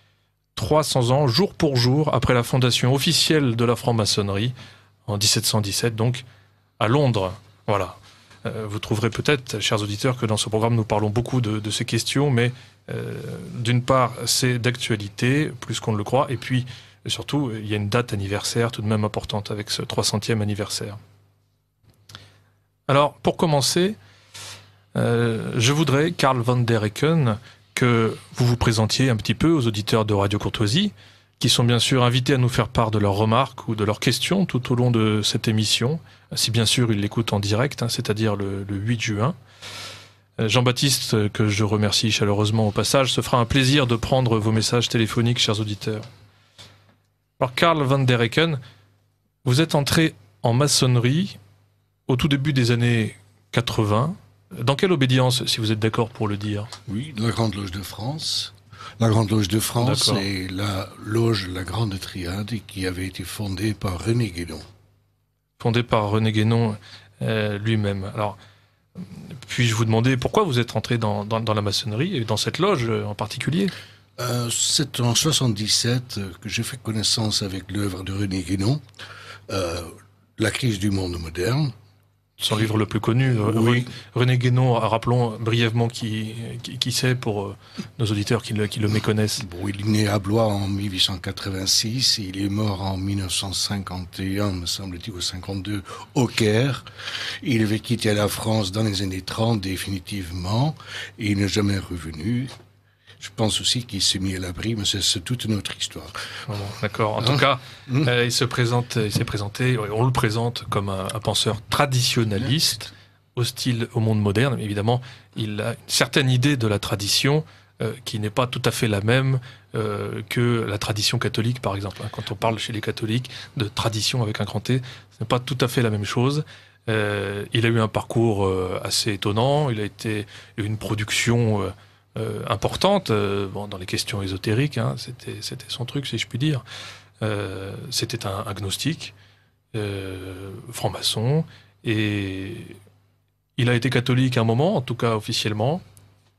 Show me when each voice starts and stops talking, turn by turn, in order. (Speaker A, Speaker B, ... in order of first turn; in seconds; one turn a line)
Speaker A: 0.6-4.5
Speaker A: 5.1-6.2
Speaker A: 6.8-21.0
Speaker A: 22.9-24.0
Speaker A: 24.9-39.4
Speaker A: 40.4-46.1
Speaker A: 47.4-48.6
Speaker A: 49.4-51.4
Speaker A: 52.1-56.7
Speaker B: 56.9-64.6
Speaker A: 59.8-60.2
Speaker A: 65.6-68.4
Speaker A: 69.5-73.7
Speaker B: 74.2-78.8
Speaker B: 79.5-81.7
Speaker A: 82.4-89.4
Speaker B: 83.4-83.9
Speaker B: 89.4-96.9
Speaker B: 97.4-102.5
Speaker B: 103.2-106.2
Speaker A: 106.5-136.6
Speaker B: 107.2-108.1
Speaker A: 137.2-139.1
Speaker A: 139.7-142.8
Speaker A: 143.6-145.8